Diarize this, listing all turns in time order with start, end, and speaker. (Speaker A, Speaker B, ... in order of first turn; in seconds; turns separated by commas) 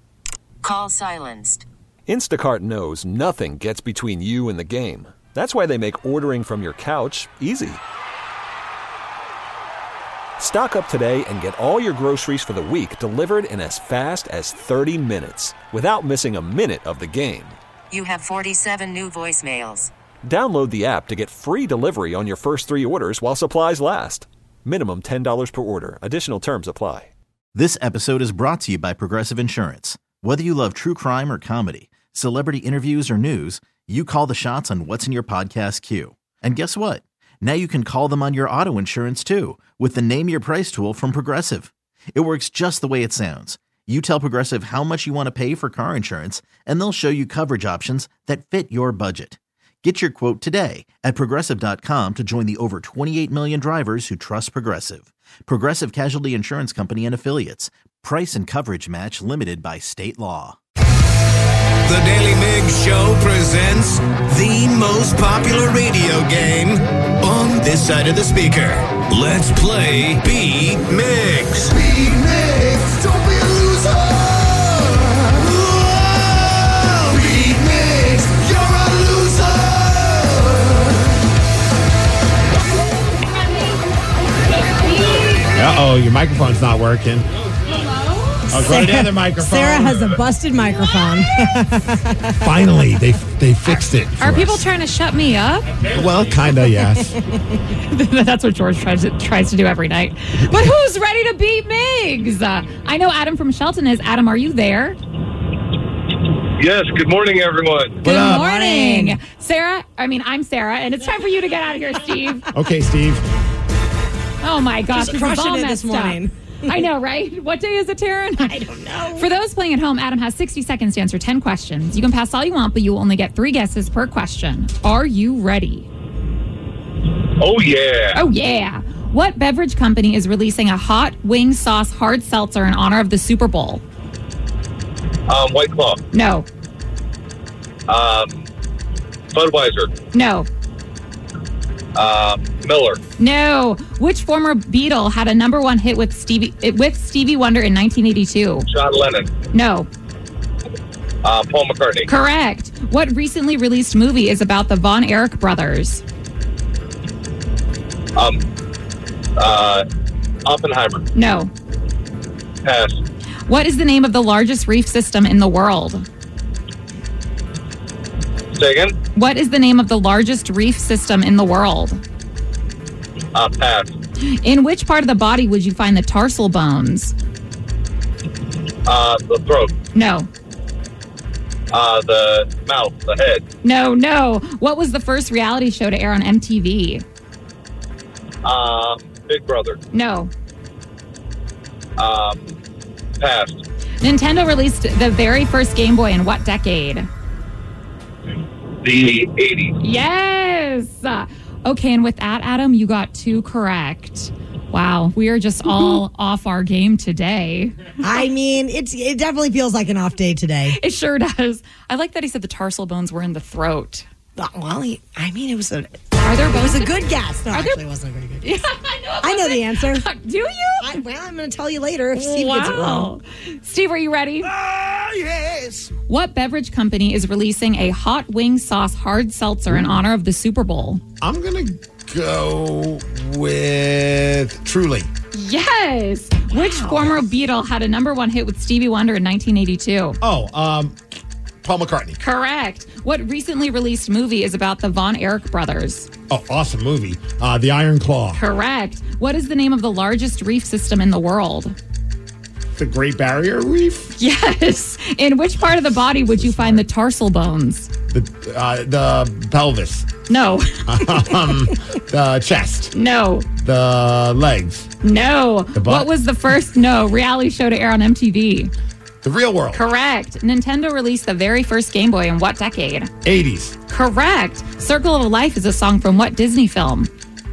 Speaker A: 0.6-1.7, Speaker B: 2.1-7.8, Speaker B: 10.4-17.6, Speaker A: 17.9-19.9, Speaker B: 20.2-27.1, Speaker C: 27.5-60.6, Speaker D: 61.9-80.9, Speaker E: 84.8-85.4, Speaker F: 85.5-87.3, Speaker E: 87.7-88.6, Speaker F: 88.5-90.1, Speaker G: 88.6-92.5, Speaker F: 92.4-94.7, Speaker E: 93.7-95.7, Speaker F: 95.9-97.2, Speaker E: 97.9-105.0, Speaker H: 106.6-108.0, Speaker F: 108.0-108.5, Speaker E: 108.0-112.5, Speaker G: 108.3-109.2, Speaker F: 112.5-113.2, Speaker E: 114.4-125.9, Speaker G: 114.9-116.8, Speaker G: 118.4-119.3, Speaker H: 127.4-128.2, Speaker E: 128.1-133.8, Speaker H: 135.3-136.0, Speaker E: 136.1-136.5, Speaker H: 137.9-138.5, Speaker H: 139.3-139.9, Speaker E: 140.1-140.5, Speaker H: 142.0-143.0, Speaker E: 143.2-148.7, Speaker H: 148.7-149.3, Speaker E: 149.5-149.9, Speaker H: 151.2-152.1, Speaker E: 152.1-156.0, Speaker H: 158.2-158.4, Speaker H: 159.4-159.8, Speaker H: 160.5-161.1, Speaker E: 161.1-161.5, Speaker H: 162.6-163.0, Speaker E: 163.5-166.1, Speaker H: 168.5-169.0, Speaker E: 169.1-172.0, Speaker H: 173.3-174.0, Speaker E: 174.2-177.2, Speaker H: 178.9-179.7, Speaker E: 179.9-180.3, Speaker H: 181.7-183.4, Speaker E: 183.6-187.1, Speaker H: 188.4-189.8, Speaker E: 189.9-190.3, Speaker H: 192.0-192.6, Speaker H: 193.2-193.7, Speaker E: 194.0-197.1, Speaker H: 198.8-199.8, Speaker E: 199.8-207.8, Speaker G: 208.0-210.8, Speaker E: 210.7-214.1, Speaker G: 214.4-215.9, Speaker E: 216.2-217.8, Speaker G: 216.5-218.4, Speaker E: 218.4-221.0, Speaker G: 219.2-220.1, Speaker G: 220.8-223.1, Speaker E: 222.1-224.5, Speaker D: 224.6-225.9, Speaker E: 226.1-231.0, Speaker F: 229.7-230.0, Speaker F: 231.2-235.1, Speaker E: 235.3-240.2, Speaker F: 236.8-237.1, Speaker F: 240.2-241.0, Speaker F: 241.6-242.2, Speaker E: 242.2-246.1, Speaker F: 246.3-248.4, Speaker E: 248.3-251.8, Speaker F: 252.8-254.2, Speaker E: 254.2-257.9, Speaker F: 256.3-256.9, Speaker F: 258.1-260.1, Speaker E: 260.3-261.4, Speaker F: 260.9-262.9, Speaker E: 262.9-263.5, Speaker F: 263.6-264.9, Speaker E: 265.0-268.7, Speaker F: 265.8-266.1, Speaker F: 269.2-269.9, Speaker E: 269.7-273.1, Speaker F: 273.2-273.8, Speaker E: 273.9-277.1